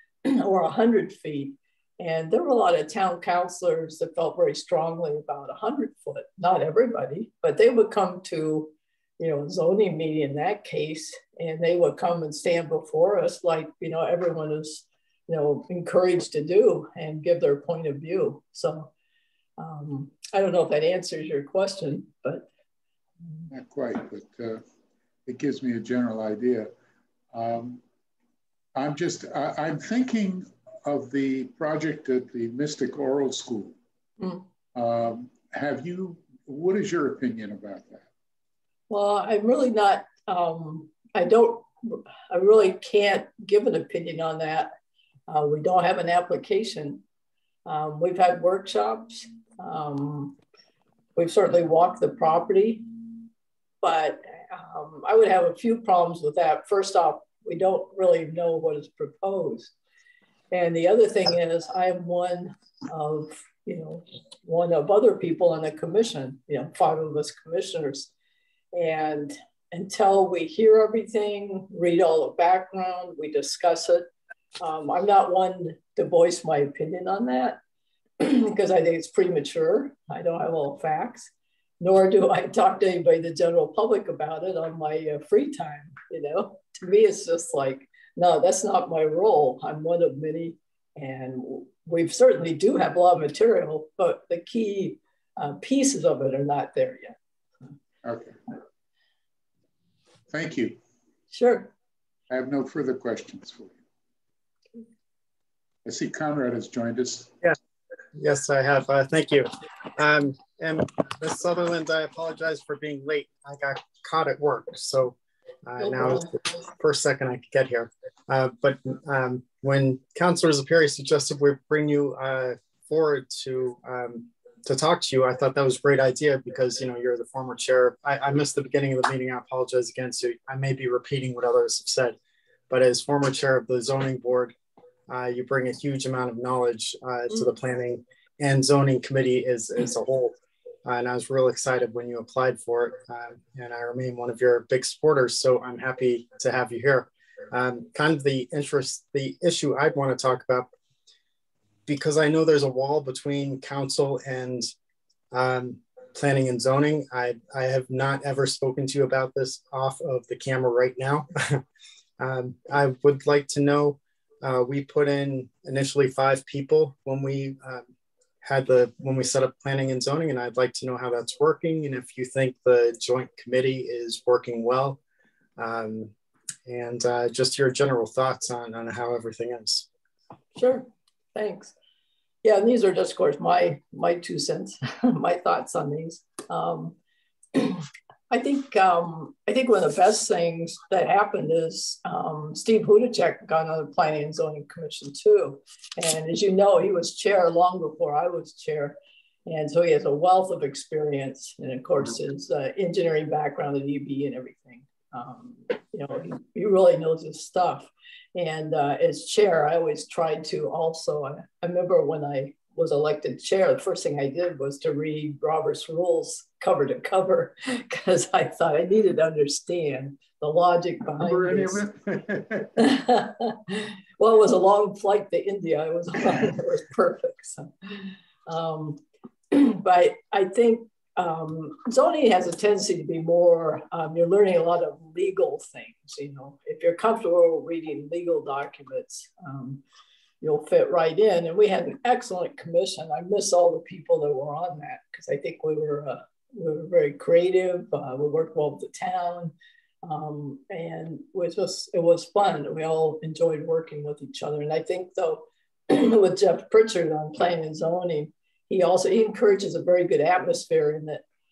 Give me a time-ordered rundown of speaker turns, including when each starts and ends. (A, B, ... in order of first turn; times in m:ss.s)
0:00.2-0:18.9 A
0:19.6-0:22.5 A
0:23.5-0:24.6 B
0:25.2-0:26.7 B
0:27.3-0:27.8 B
0:28.7-0:33.8 B
0:34.2-0:34.4 A
0:34.7-0:38.0 B
0:38.9-0:44.7 A
0:45.3-0:47.0 A
0:47.6-0:50.4 A
0:51.2-0:52.9 A
0:53.8-0:59.7 A
1:00.5-1:08.1 A
1:08.7-1:14.0 A
1:14.6-1:17.6 A
1:18.2-1:37.1 A
1:38.0-1:38.4 B
1:40.3-1:40.8 B
1:41.3-1:41.7 A
1:42.3-1:43.8 B
1:45.8-1:47.3 B
1:48.1-2:12.2 C
2:12.7-2:14.5 C
2:15.1-2:30.7 C
2:31.9-2:34.7 C
2:35.3-2:41.6 C
2:42.2-2:47.9 C
2:48.4-2:55.0 C
2:55.6-2:56.1 C
2:56.6-2:59.8 C
3:00.6-3:01.7 A
3:02.4-3:07.0 A
3:07.5-3:41.8 A
3:41.2-3:42.8 B
3:42.8-3:59.8 A
4:00.4-4:09.5 A
4:10.0-4:21.2 A